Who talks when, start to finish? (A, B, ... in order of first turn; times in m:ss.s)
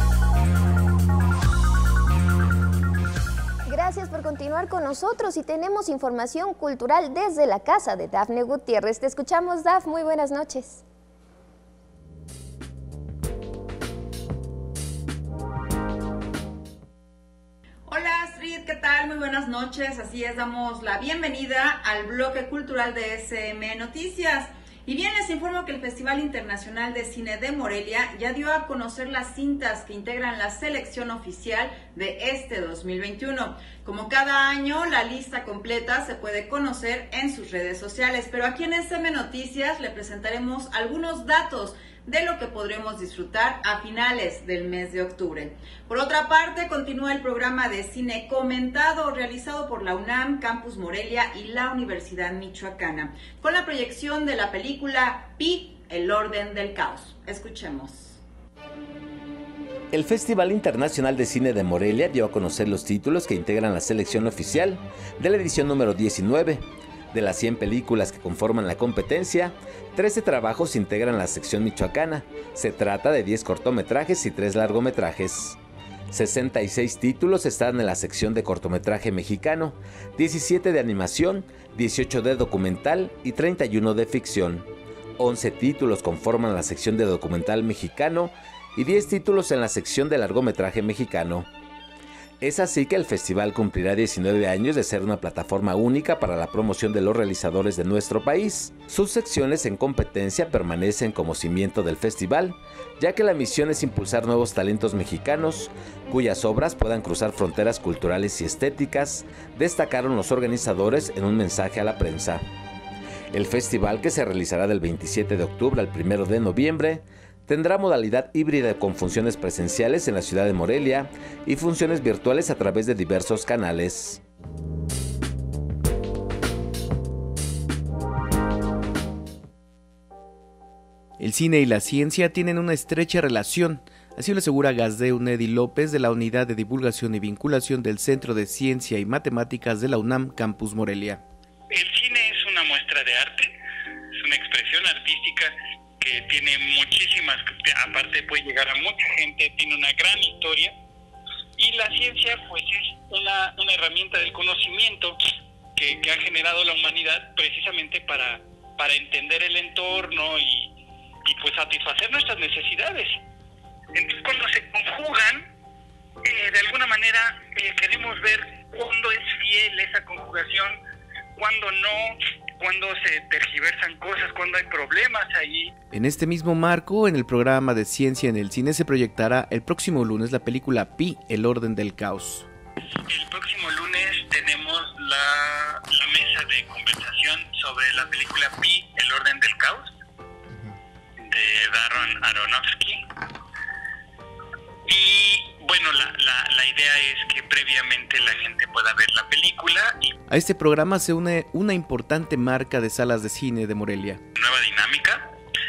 0:03.7-0:10.8 A
0:17.9-0:58.2 B
0:59.9-1:15.6 C
1:16.1-1:31.5 C
1:32.4-1:52.4 C
1:53.3-2:04.2 C
2:11.2-2:21.2 D
2:21.7-2:23.5 E
2:24.2-2:30.7 E
2:31.6-2:35.2 E
2:35.8-2:40.7 E
2:41.2-2:43.2 E
2:43.9-2:45.4 E
2:46.2-2:50.7 E
2:51.4-2:55.7 E
2:55.9-3:02.5 D
3:03.1-3:09.9 E
3:11.2-3:13.0 E
3:14.9-3:20.1 E
3:20.3-3:24.2 D
3:24.3-3:25.3 E